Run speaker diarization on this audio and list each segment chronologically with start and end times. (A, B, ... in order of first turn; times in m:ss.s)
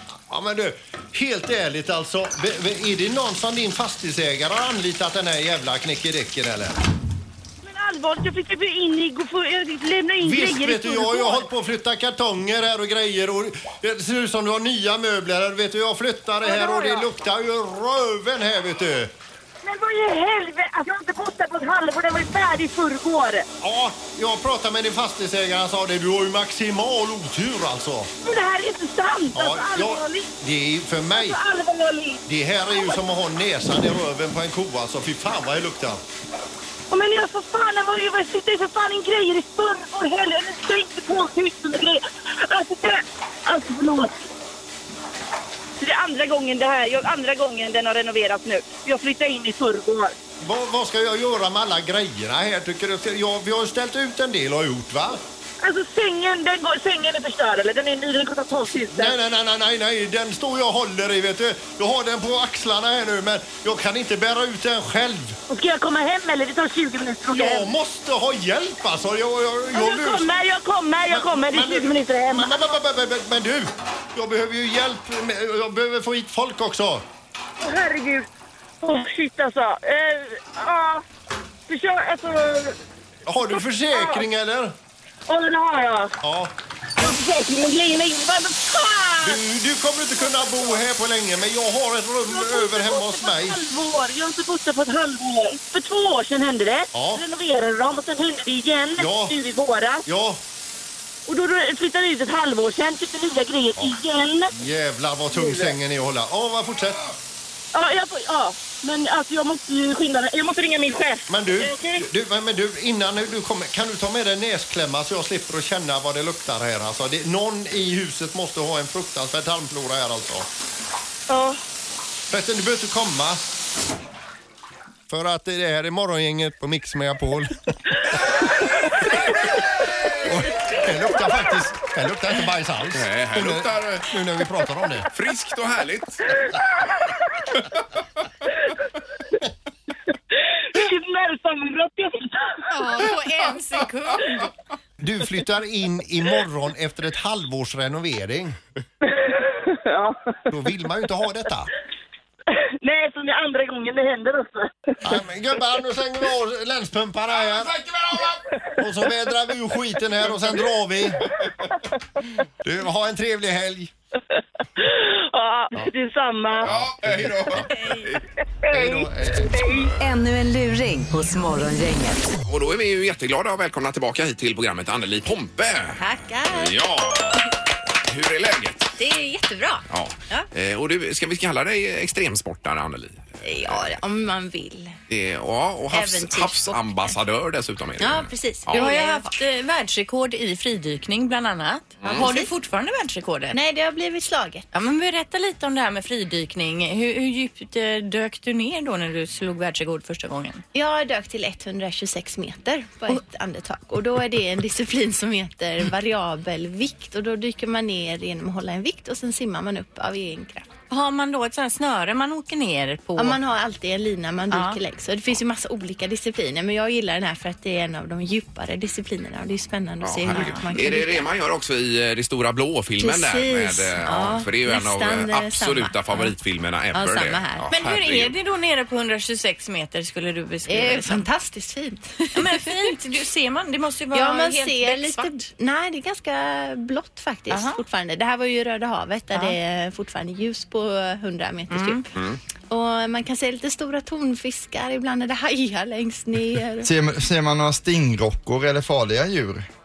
0:00.3-0:06.8 A
0:07.6-0:11.5 B
0:10.2-0:19.1 A
0:16.4-0:17.0 B
0:19.6-0:23.4 B
0:23.6-0:28.1 A
0:28.2-0:30.3 B
0:29.3-0:31.4 A
0:31.0-0:32.2 B
0:32.3-0:36.0 A
0:32.7-0:33.0 B
0:36.9-0:44.2 B
0:45.8-0:50.1 B
0:50.4-0:55.2 A
0:55.6-0:59.2 B
0:58.9-1:05.4 A
1:05.5-1:07.7 B
1:07.3-1:10.3 A
1:09.7-1:12.8 B
1:11.1-1:17.0 A
1:17.6-1:18.3 B
1:18.8-1:21.0 B
1:21.7-1:22.8 B
1:23.3-1:24.7 A
1:23.4-1:24.2 B
1:25.3-1:26.1 B
1:26.2-1:26.5 A
1:27.0-1:29.4 B
1:29.2-1:33.6 A
1:30.3-1:30.8 B
1:32.3-1:40.0 B
1:36.9-1:37.2 A
1:39.0-1:39.4 A
1:40.1-1:40.4 A
1:41.3-1:44.5 B
1:44.6-1:47.1 A
1:45.3-1:45.7 B
1:47.7-1:52.1 B
1:51.3-2:00.5 A
2:01.3-2:01.6 B
2:02.3-2:03.4 A
2:05.1-2:07.5 A
2:10.2-2:15.1 A
2:12.9-2:14.1 C
2:15.1-2:16.3 C
2:20.3-2:22.6 B
2:22.7-2:24.5 D
2:25.0-2:28.6 A
2:29.0-2:30.3 B
2:30.5-2:31.7 A
2:32.8-2:34.9 B
2:35.0-2:37.8 A
2:37.4-2:38.4 C
2:38.8-2:41.2 A
2:42.6-2:43.9 A
2:44.8-2:46.7 B
2:46.6-2:48.2 C
2:47.7-2:48.1 D
2:48.6-2:49.9 B
2:48.7-2:49.5 A
2:50.0-2:52.3 E
2:52.4-2:56.0 C
2:56.0-2:56.8 F
2:56.5-2:58.9 C
2:59.0-3:00.5 F
2:59.9-3:03.9 C
3:03.4-3:05.0 F
3:05.1-3:08.9 C
3:05.9-3:07.2 F
3:08.0-3:09.3 F
3:08.7-3:13.6 D
3:12.0-3:12.3 C
3:12.1-3:12.5 F
3:13.5-3:14.6 F
3:14.7-3:20.6 D
3:20.7-3:30.7 F
3:30.9-3:33.4 D
3:33.2-3:41.3 F
3:34.5-3:34.8 D
3:40.0-3:48.3 C
3:40.3-3:40.7 D
3:43.0-3:46.3 F
3:46.9-3:47.6 F
3:47.7-3:51.2 D
3:50.7-3:52.7 F
3:52.3-3:55.3 D
3:54.1-4:02.0 F
3:57.5-3:57.8 D
4:01.7-4:02.1 D
4:02.1-4:02.4 C
4:02.7-4:06.9 F
4:06.8-4:09.6 G